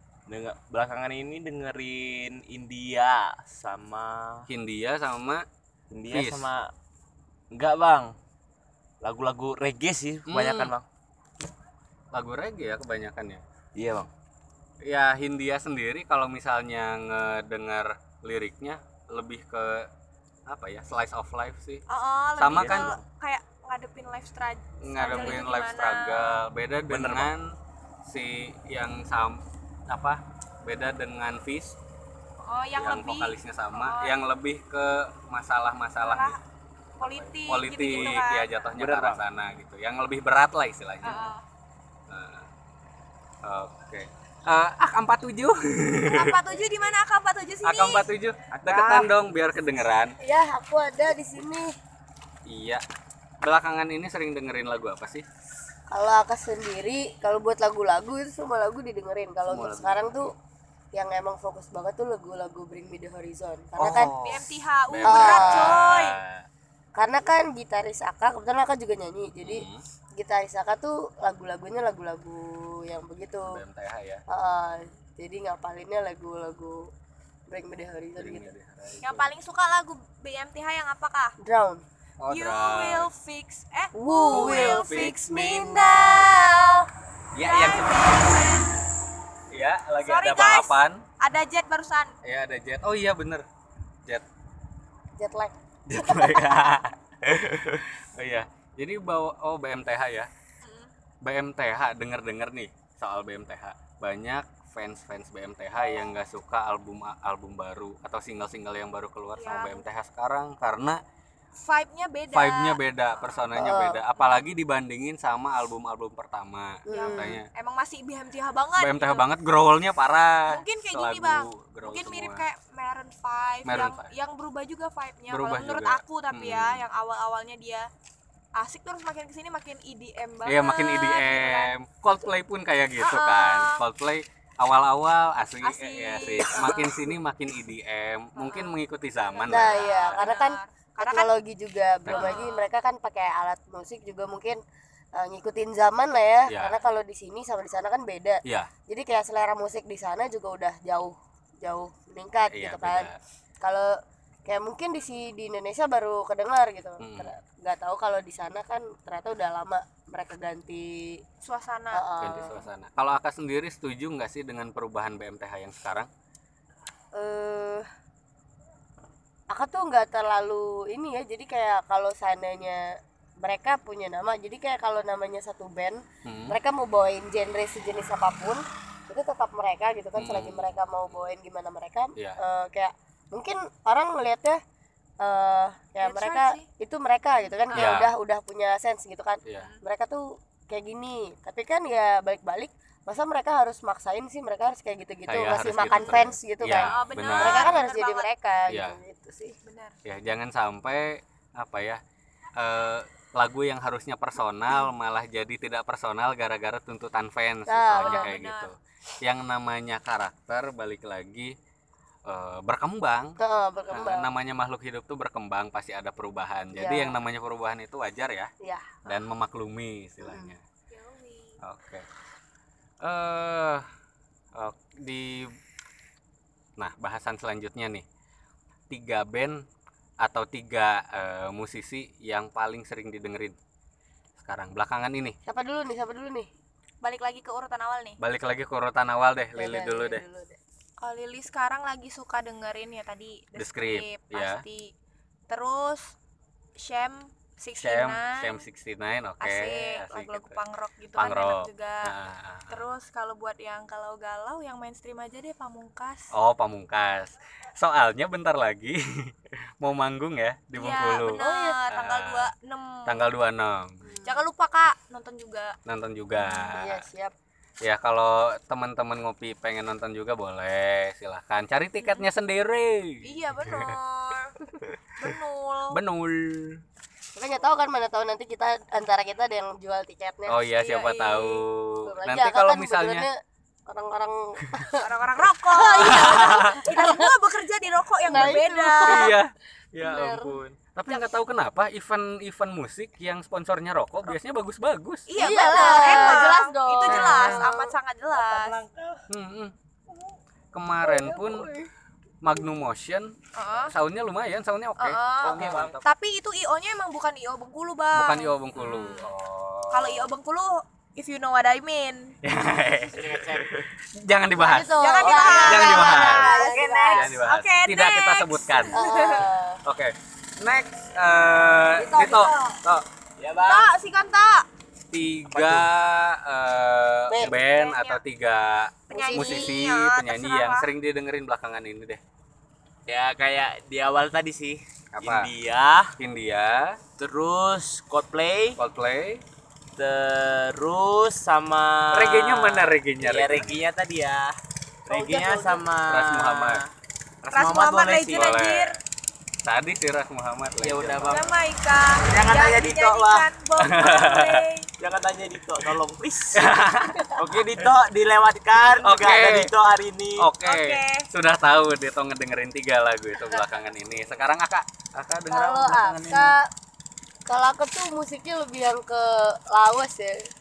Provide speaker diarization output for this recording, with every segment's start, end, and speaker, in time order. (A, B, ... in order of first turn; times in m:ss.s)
0:00.3-0:04.5 A
0:04.5-0:05.4 B
0:05.9-0:06.7 A
0:06.1-0:06.5 B
0:07.5-0:08.1 A
0:09.0-0:10.8 A
0:10.3-0:10.7 B
0:12.1-0:13.4 B
0:13.8-0:14.1 A
0:14.8-0:19.9 B
0:20.5-0:21.8 B
0:21.9-0:26.4 C
0:22.4-0:23.0 B
0:22.5-0:23.0 A
0:24.8-0:27.6 B
0:26.9-0:27.3 A
0:28.1-0:31.8 B
0:32.4-0:34.2 C
0:32.8-0:36.4 B
0:36.0-0:36.4 C
0:37.0-0:38.7 C
0:37.0-0:41.3 B
0:38.8-0:39.2 A
0:41.0-0:41.4 C
0:42.1-0:42.5 B
0:43.4-0:46.4 B
0:46.1-0:48.1 C
0:47.6-0:50.2 B
0:48.5-0:49.1 A
0:50.2-0:51.8 D
0:52.5-0:52.8 B
0:53.4-0:55.2 B
0:55.9-1:00.3 D
0:59.5-1:00.3 B
1:00.9-1:04.1 D
1:03.8-1:06.5 B
1:04.2-1:06.2 C
1:05.0-1:05.8 D
1:07.0-1:09.7 D
1:09.4-1:09.8 B
1:10.2-1:13.6 D
1:13.5-1:14.2 B
1:14.3-1:16.9 D
1:17.5-1:18.5 D
1:18.2-1:19.3 B
1:19.0-1:21.4 C
1:21.4-1:21.8 D
1:22.2-1:23.1 B
1:22.3-1:26.9 C
1:24.0-1:26.7 D
1:24.3-1:25.2 B
1:27.4-1:28.4 B
1:27.4-1:28.7 C
1:29.5-1:31.0 B
1:30.0-1:32.1 C
1:32.2-1:33.5 B
1:35.2-1:36.7 D
1:35.9-1:40.3 B
1:40.6-1:40.9 C
1:41.2-1:51.0 B
1:49.4-1:49.8 C
1:51.6-1:53.4 C
1:52.3-1:57.5 B
1:53.5-1:54.0 D
1:54.2-1:54.5 C
1:56.9-1:57.4 D
1:56.9-1:59.3 C
1:58.8-2:02.4 B
2:00.5-2:07.9 C
2:03.6-2:04.1 B
2:05.3-2:06.8 B
2:08.6-2:11.7 C
2:10.5-2:20.3 B
2:13.0-2:13.8 C
2:15.6-2:16.9 C
2:16.5-2:17.0 D
2:18.4-2:18.8 C
2:19.3-2:21.3 C
2:19.5-2:24.6 D
2:22.1-2:22.4 B
2:22.1-2:22.7 C
2:25.2-2:33.1 D
2:26.5-2:26.8 B
2:28.4-2:28.7 B
2:32.5-2:33.2 B
2:33.6-2:33.9 D
2:34.5-2:41.2 D
2:37.0-2:37.4 B
2:41.4-2:42.0 C
2:41.9-2:42.6 D
2:42.2-2:46.1 B
2:47.1-2:47.9 D
2:49.5-3:04.6 D
2:56.2-2:56.6 B
3:00.2-3:01.2 B
3:05.2-3:19.6 D
3:06.0-3:06.7 C
3:07.7-3:08.0 C
3:07.7-3:08.1 B
3:09.6-3:09.8 C
3:15.3-3:17.8 B
3:15.9-3:16.2 C
3:16.7-3:18.3 C
3:18.7-3:19.0 B
3:19.6-3:20.0 C
3:20.0-3:22.0 B
3:22.6-3:31.6 B
3:27.7-3:28.3 D
3:28.0-3:28.7 C
3:32.3-3:33.4 B
3:33.4-3:34.3 D
3:33.9-3:38.5 B
3:36.7-3:37.2 D
3:38.6-3:39.0 D
3:39.1-3:40.6 B
3:40.2-3:40.5 D
3:40.9-3:41.6 C
3:41.6-3:42.1 B
3:43.0-3:43.9 B
3:44.6-3:45.5 B
3:46.8-3:48.1 B
3:48.9-3:49.6 B
3:50.2-3:53.6 B
3:54.4-3:55.4 B
3:55.5-3:56.5 D
3:57.0-3:58.2 C
3:58.2-4:00.2 B
3:59.6-4:00.6 D
4:01.0-4:04.9 C
4:03.6-4:04.6 B
4:05.5-4:06.1 C
4:06.8-4:08.6 C
4:07.8-4:10.6 B
4:09.4-4:12.1 C
4:11.2-4:12.8 B
4:12.7-4:16.3 C
4:16.3-4:22.5 B
4:20.8-4:23.3 C
4:21.4-4:21.8 D
4:23.1-4:24.0 B
4:24.0-4:24.4 D
4:24.2-4:25.8 C
4:25.9-4:27.1 B
4:26.4-4:27.4 D
4:27.8-4:34.0 B
4:33.2-4:34.6 C
4:35.2-4:36.0 C
4:35.9-4:36.8 B
4:37.4-4:40.6 D
4:40.5-4:43.3 B
4:40.7-4:41.6 C
4:42.0-4:47.3 D
4:44.9-4:49.3 C
4:46.0-4:46.8 B
4:48.3-4:49.4 D
4:49.0-4:57.7 B
4:50.0-4:50.6 D
4:55.3-4:58.8 C
4:55.4-4:57.9 D
4:58.3-4:59.2 A
4:59.3-4:59.7 B
5:00.7-5:01.7 B
5:01.0-5:01.9 D
5:02.4-5:03.4 B
5:03.6-5:03.9 C
5:03.9-5:06.0 B
5:05.0-5:09.3 C
5:05.4-5:05.9 A
5:08.1-5:10.3 B
5:09.9-5:12.3 C
5:12.4-5:16.6 B
5:13.1-5:13.7 A
5:14.6-5:17.4 D
5:15.0-5:19.4 C
5:16.1-5:17.3 A
5:17.1-5:19.3 B
5:18.9-5:19.8 D
5:19.8-5:23.0 B
5:22.0-5:22.5 D
5:23.4-5:23.9 A
5:23.7-5:24.6 C
5:25.1-5:32.2 B
5:25.5-5:25.9 A
5:27.3-5:27.6 D
5:27.4-5:28.2 C
5:29.1-5:29.8 D
5:29.1-5:30.9 C
5:33.1-5:36.2 A
5:35.1-5:35.5 B
5:36.2-5:37.0 B
5:37.2-5:38.8 A
5:38.8-5:39.4 B
5:40.0-5:44.6 A
5:42.1-5:43.8 B
5:45.1-5:46.9 A
5:45.1-5:45.8 D
5:46.1-5:46.8 B
5:47.4-5:48.5 A
5:47.5-5:49.0 C
5:48.3-5:49.0 B
5:49.6-5:51.4 B
5:50.8-5:51.5 A
5:51.3-5:54.9 C
5:52.3-5:53.4 A
5:53.8-5:54.6 B
5:55.0-5:56.7 A
5:56.5-5:57.3 B
5:57.3-6:00.5 A
5:59.0-5:59.7 B
6:00.4-6:06.5 B
6:00.6-6:01.3 C
6:05.5-6:06.7 D
6:07.5-6:10.5 D